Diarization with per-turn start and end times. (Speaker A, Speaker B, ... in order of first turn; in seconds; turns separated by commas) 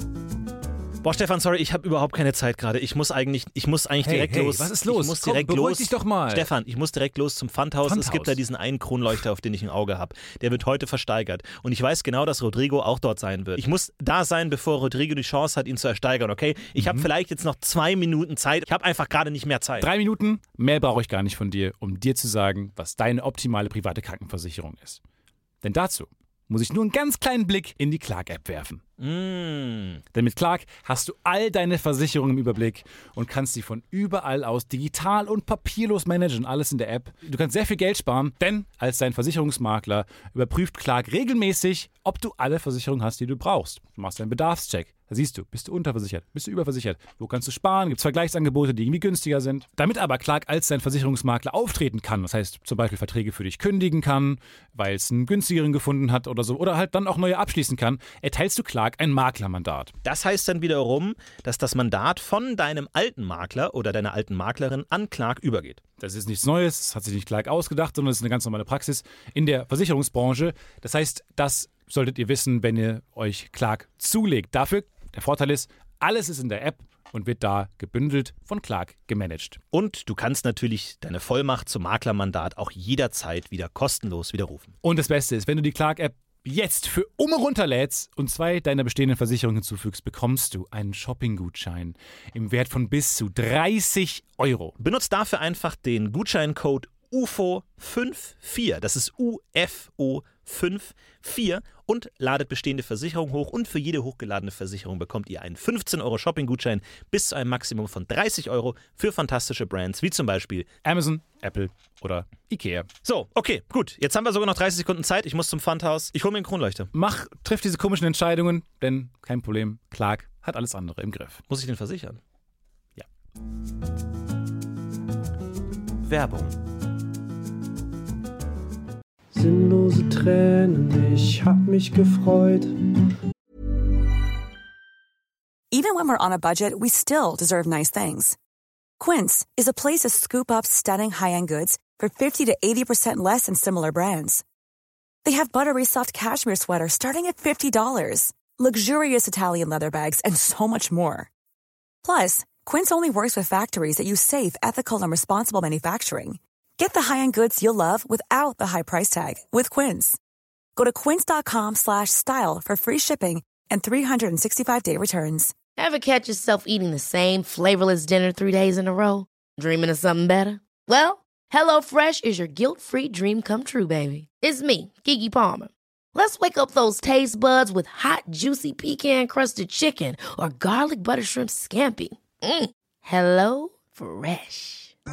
Speaker A: 1.0-19.9, Speaker B: 4.0-6.5, Speaker B: 7.8-8.4, Speaker B: 16.8-17.1, Speaker B: 19.8-25.0, Speaker B: 25.6-28.8, Speaker A: 29.0-30.0, Speaker B: 30.1-59.9, Speaker A: 60.0-65.8, Speaker B: 66.0-79.6, Speaker A: 79.7-84.7, Speaker B: 84.8-94.7, Speaker A: 94.8-110.7, Speaker B: 110.8-112.9, Speaker A: 113.0-116.9, Speaker B: 116.9-121.4, Speaker A: 121.5-122.2, Speaker B: 126.0-126.5, Speaker C: 129.3-132.9, Speaker D: 135.7-138.3, Speaker D: 139.0-144.4, Speaker D: 145.2-151.3, Speaker D: 152.0-160.2, Speaker D: 160.8-165.5, Speaker E: 165.8-184.9